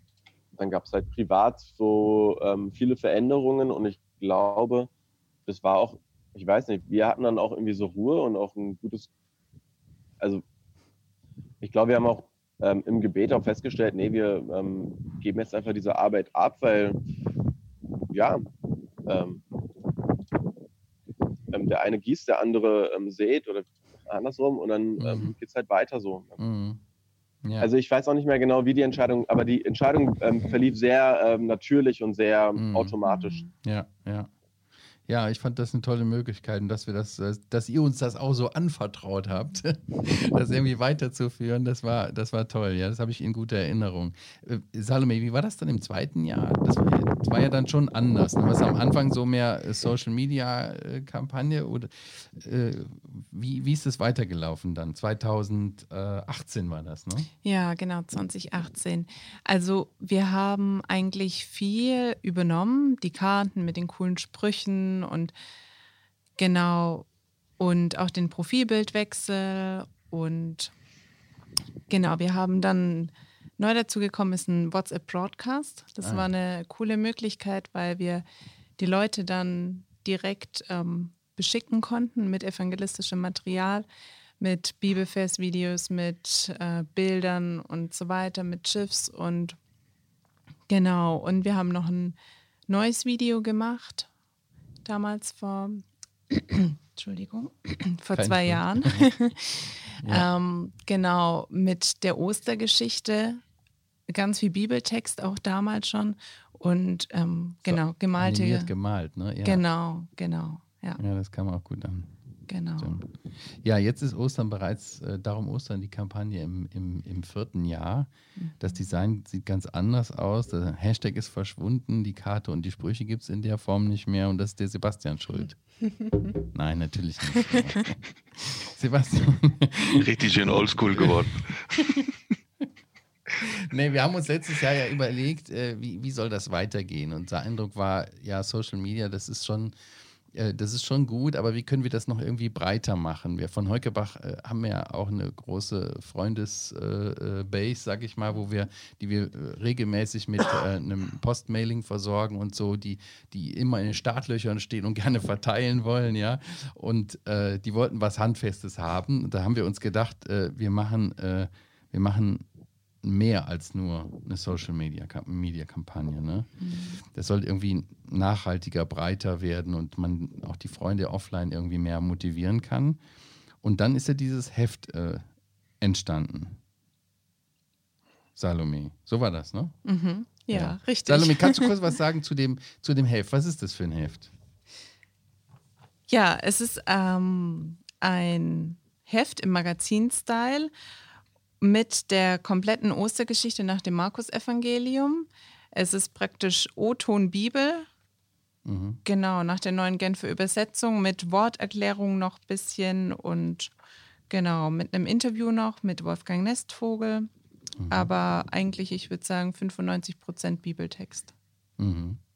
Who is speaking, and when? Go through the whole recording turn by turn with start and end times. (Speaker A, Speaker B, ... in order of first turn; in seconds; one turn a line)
Speaker A: 0.5-4.9
Speaker A: 5.5-9.1
Speaker A: 11.6-17.0
Speaker A: 18.1-18.5
Speaker A: 19.1-19.4
Speaker A: 21.5-26.4
Speaker B: 25.0-25.3
Speaker B: 26.4-26.8
Speaker B: 27.4-27.7
Speaker A: 27.6-33.5
Speaker B: 32.5-34.3
Speaker C: 33.1-33.4
Speaker B: 35.1-57.3
Speaker C: 57.4-65.3
Speaker C: 66.4-67.0
Speaker C: 67.6-70.7
Speaker C: 71.9-78.2
Speaker B: 76.0-76.3
Speaker C: 78.8-83.8
Speaker C: 84.4-89.6
Speaker C: 90.7-92.2
Speaker C: 92.7-94.1
Speaker C: 94.8-103.4
Speaker B: 98.1-99.1
Speaker B: 100.0-100.3
Speaker C: 104.1-108.7
Speaker B: 107.7-109.6
Speaker C: 109.4-111.0
Speaker B: 111.0-112.1
Speaker C: 112.5-113.0
Speaker B: 112.8-125.6
Speaker B: 126.5-130.0
Speaker D: 129.9-132.1
Speaker B: 130.9-131.2
Speaker B: 131.8-132.0
Speaker B: 133.4-139.8
Speaker B: 140.3-162.4
Speaker B: 163.0-166.5
Speaker C: 166.6-167.0
Speaker B: 167.1-173.0
Speaker B: 173.6-175.2
Speaker B: 175.8-176.6
Speaker B: 178.3-179.8
Speaker C: 179.8-181.7
Speaker B: 180.5-184.3
Speaker C: 186.1-190.7
Speaker C: 191.6-197.9
Speaker B: 198.6-199.0
Speaker C: 199.0-203.7
Speaker C: 204.3-207.3
Speaker B: 207.8-208.1
Speaker C: 207.9-211.3
Speaker B: 211.8-212.2